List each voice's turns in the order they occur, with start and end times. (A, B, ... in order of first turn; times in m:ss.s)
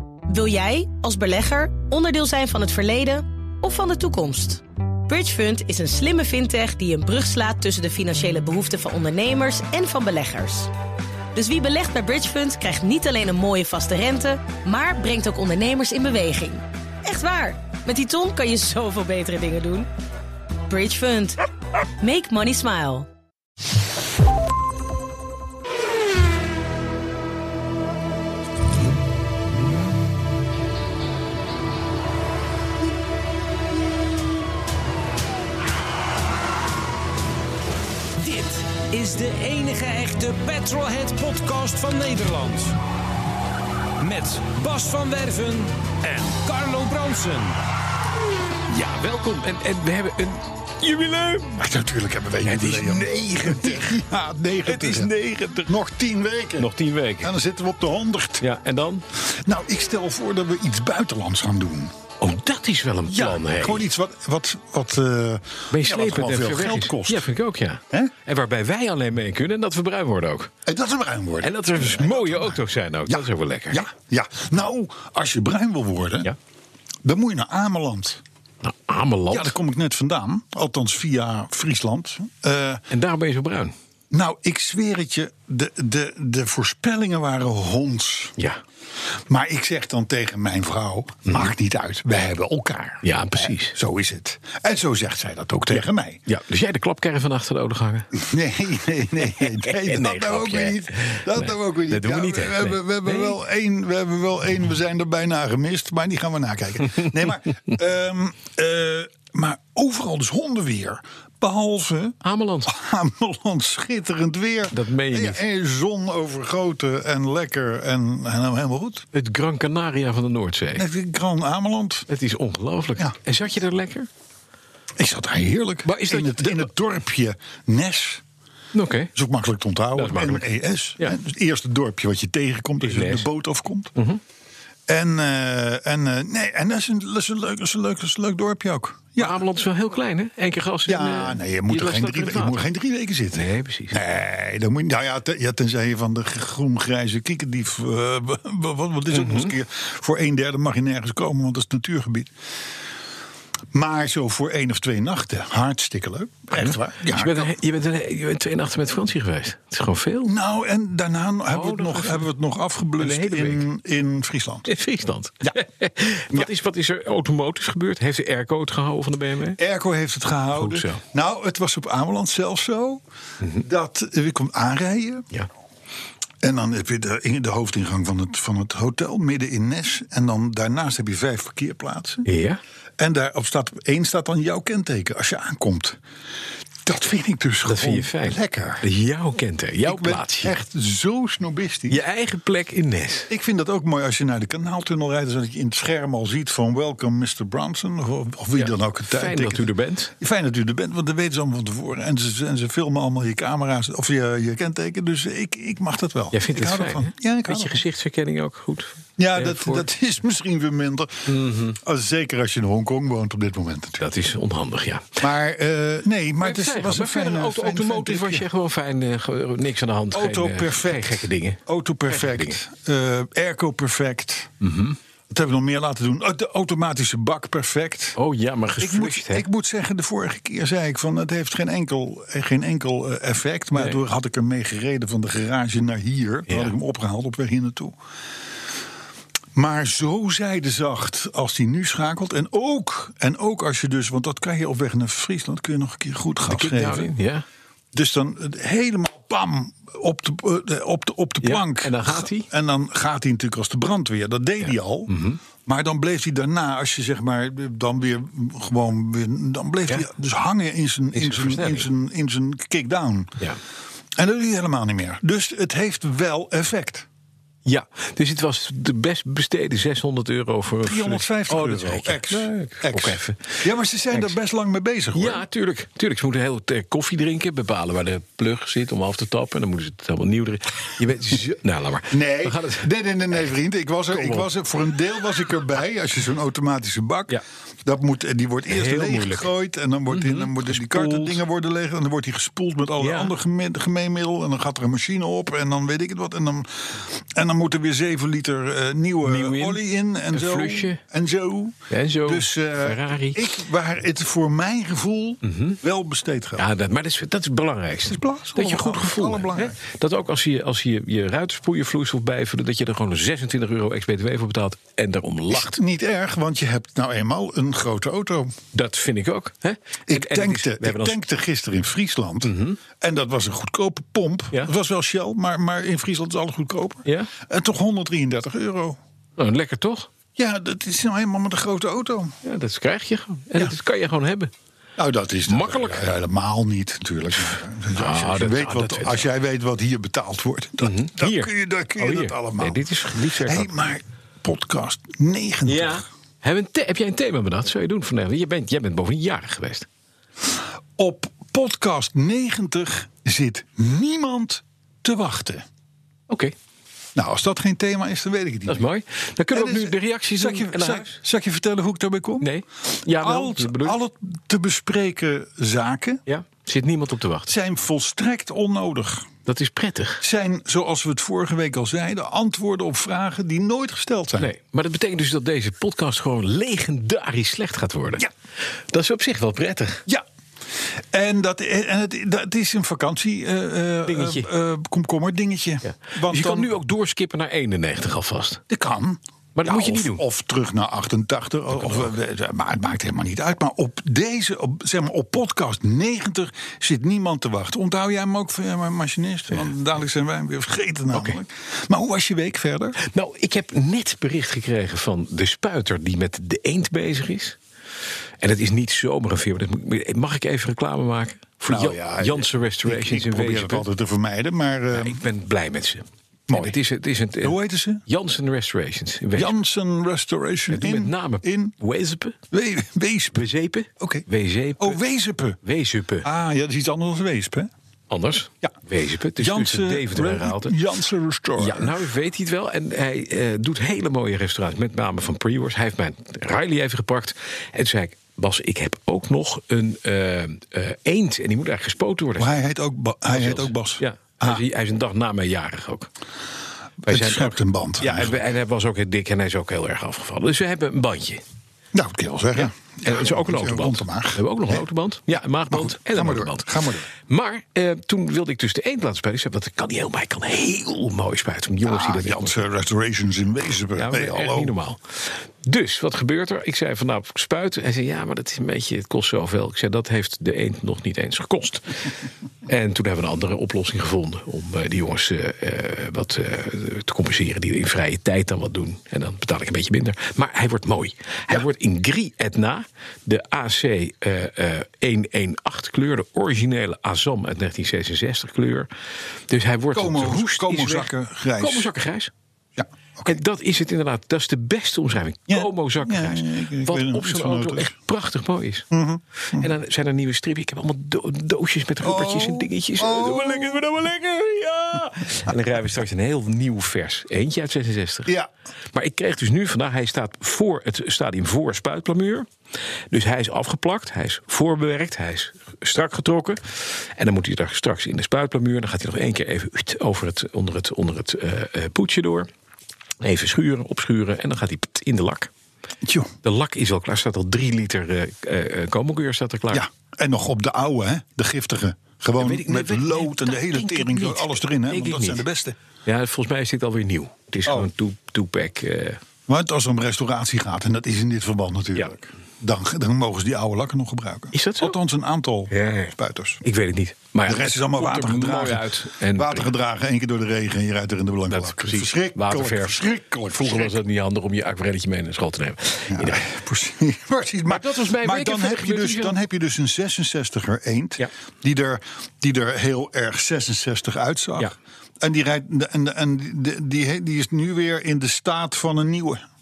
0:00.3-0:10.7 A
0:11.3-0:19.9 A
0:20.7-0:21.4 A
0:22.0-0:23.1 A
0:38.2-0:42.8 B
0:44.0-0:47.6 B
0:48.7-0:51.6 C
0:51.6-0:58.4 D
0:52.4-0:54.0 C
0:54.6-0:55.7 C
0:56.6-0:57.4 C
0:58.4-0:59.0 C
0:59.2-1:01.9 D
1:02.2-1:03.9 C
1:03.1-1:07.3 D
1:05.7-1:10.5 C
1:10.6-1:16.3 D
1:11.4-1:13.9 C
1:17.0-1:18.2 D
1:18.6-1:19.6 C
1:19.3-1:22.8 D
1:22.9-1:23.7 C
1:24.1-1:28.4 D
1:29.3-1:36.2 D
1:31.3-1:31.5 C
1:33.0-1:33.7 C
1:35.7-1:38.2 C
1:38.1-1:59.0 D
1:39.4-1:43.4 C
1:52.2-1:52.7 C
1:54.7-1:55.4 C
1:59.1-2:00.8 C
2:00.8-2:02.1 D
2:02.1-2:04.1 C
2:05.0-2:08.2 D
2:05.8-2:06.7 C
2:08.7-2:09.1 C
2:09.1-2:13.9 D
2:09.9-2:10.4 C
2:12.8-2:13.3 C
2:14.9-2:19.4 D
2:19.2-2:22.6 C
2:20.8-2:32.3 D
2:23.3-2:24.0 C
2:29.1-2:29.5 C
2:33.7-2:37.5 D
2:36.5-2:40.3 C
2:40.2-2:44.7 D
2:41.5-2:42.3 C
2:43.0-2:43.6 C
2:44.7-2:49.6 C
2:49.6-2:53.0 D
2:50.6-2:51.0 C
2:53.6-2:55.2 D
2:56.4-3:02.2 D
3:02.2-3:02.6 C
3:03.0-3:06.0 D
3:06.8-3:08.8 D
3:07.6-3:10.6 C
3:09.8-3:12.0 D
3:11.9-3:13.3 C
3:13.3-3:27.8 D
3:18.6-3:20.1 C
3:26.3-3:29.9 C
3:29.2-3:34.1 D
3:31.3-3:31.8 C
3:34.0-3:35.2 C
3:35.2-3:38.4 D
3:36.4-3:42.6 C
3:40.1-3:44.5 D
3:44.6-3:45.0 C
3:45.3-3:48.2 D
3:48.2-3:49.5 C
3:48.8-3:58.0 D
3:53.7-3:54.0 C
3:59.5-4:07.1 D
4:06.5-4:07.4 C
4:07.9-4:23.4 D
4:11.4-4:12.5 C
4:15.1-4:15.4 C
4:21.1-4:21.9 C
4:24.2-4:27.0 D
4:27.6-4:34.3 C
4:30.8-4:35.4 D
4:35.1-4:42.9 C
4:42.1-5:06.6 D
4:44.1-4:44.5 C
4:48.7-4:49.5 C
4:50.1-4:51.4 C
4:53.0-4:53.3 C
4:59.2-4:59.8 C
5:00.3-5:01.0 C
5:01.9-5:03.6 C
5:05.4-5:05.8 C
5:06.6-5:15.7 C
5:08.0-5:09.8 D
5:15.5-5:18.6 D
5:18.7-5:21.2 C
5:20.1-5:29.0 D
5:22.4-5:22.8 C
5:27.0-5:27.3 C
5:29.4-5:30.1 C
5:30.4-5:32.3 D
5:32.4-5:34.5 C
5:35.0-5:42.8 D
5:35.5-5:36.0 C
5:37.9-5:39.3 C
5:40.8-5:43.9 C
5:43.3-5:46.0 D
5:45.6-5:49.9 C
5:51.0-5:55.6 D
5:56.3-5:56.5 C
5:57.1-5:58.8 D
5:58.7-6:01.2 C
5:59.5-6:02.5 D
6:02.4-6:04.0 C
6:03.1-6:06.2 D
6:06.3-6:07.5 C
6:07.5-6:09.3 D
6:09.5-6:10.2 C
6:10.2-6:14.5 D
6:14.4-6:18.3 C
6:18.9-6:20.0 C
6:21.0-6:26.7 D
6:24.0-6:24.5 C
6:25.8-6:28.6 C
6:28.7-6:43.0 D
6:29.6-6:30.2 C
6:31.8-6:32.1 C
6:41.1-6:41.4 C
6:43.0-6:47.6 C
6:48.4-6:53.8 C
6:51.7-6:55.2 D
6:54.9-6:59.6 C
6:56.5-6:56.8 D
6:57.4-6:58.0 D
6:59.3-7:01.7 D
7:00.7-7:02.4 C
7:02.5-7:03.5 D
7:03.3-7:05.0 C
7:04.0-7:04.3 D
7:04.8-7:05.6 D
7:05.6-7:06.3 C
7:06.2-7:07.7 D
7:08.1-7:10.7 C
7:09.4-7:12.0 D
7:11.6-7:22.5 C
7:22.4-7:24.6 D
7:23.3-7:26.1 C
7:27.0-7:31.4 C
7:27.1-7:28.4 D
7:31.9-7:34.8 D
7:32.5-7:36.7 C
7:35.7-7:37.1 D
7:37.3-7:42.6 C
7:41.8-7:44.7 D
7:44.0-7:52.1 C
7:52.6-8:08.9 C
8:09.5-8:12.3 C
8:09.9-8:11.9 D
8:12.8-8:13.4 D
8:13.3-8:18.8 C
8:15.5-8:17.9 D
8:18.9-8:19.7 D
8:19.5-8:28.3 C
8:22.0-8:23.9 D
8:28.9-8:32.5 C
8:33.1-8:42.5 C
8:43.2-8:45.5 C
8:46.0-8:46.3 D
8:46.4-8:49.8 C
8:49.7-8:55.8 D
8:52.4-8:55.4 C
8:56.0-8:59.2 C
8:59.5-9:06.6 D
9:04.5-9:05.0 C
9:05.7-9:09.7 C
9:07.4-9:14.0 D
9:11.5-9:16.5 C
9:16.1-9:29.4 D
9:17.7-9:19.4 C